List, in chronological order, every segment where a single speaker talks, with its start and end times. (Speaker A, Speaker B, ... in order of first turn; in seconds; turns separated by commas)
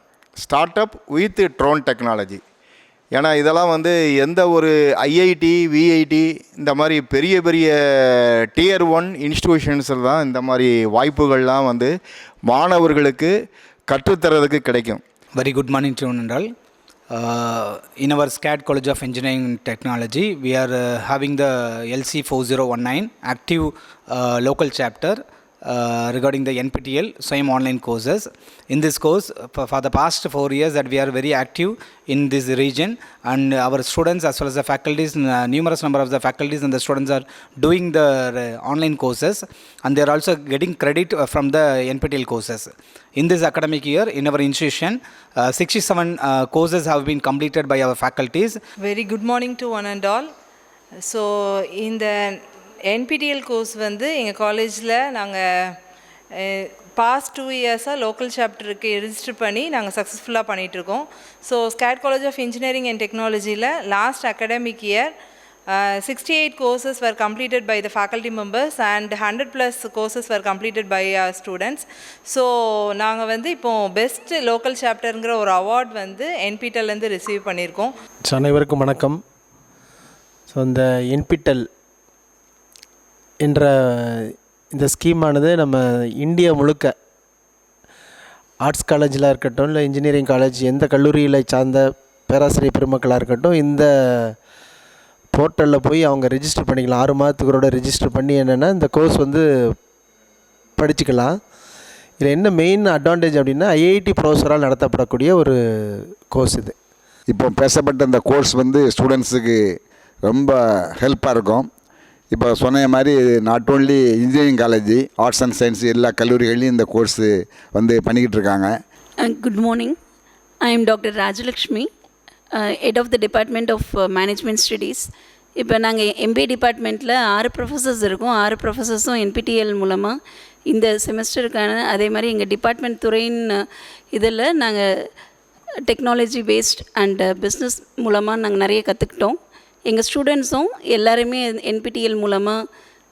Speaker A: 0.4-2.4, Speaker A: 3.1-11.9, Speaker A: 12.5-13.3, Speaker A: 13.9-15.0, Speaker B: 15.3-16.5, Speaker B: 17.1-48.6, Speaker C: 48.8-50.3, Speaker C: 51.8-55.8, Speaker C: 56.4-65.1, Speaker C: 65.7-77.9, Speaker D: 78.3-79.2, Speaker D: 80.5-81.6, Speaker D: 83.4-86.9, Speaker D: 88.6-94.3, Speaker D: 95.3-99.7, Speaker D: 100.8-101.3, Speaker D: 102.2-106.7, Speaker E: 107.3-109.6, Speaker E: 110.3-111.7, Speaker E: 112.3-118.7, Speaker F: 119.2-120.0, Speaker F: 120.6-121.9, Speaker F: 122.5-130.1, Speaker F: 130.7-134.9, Speaker F: 135.9-142.6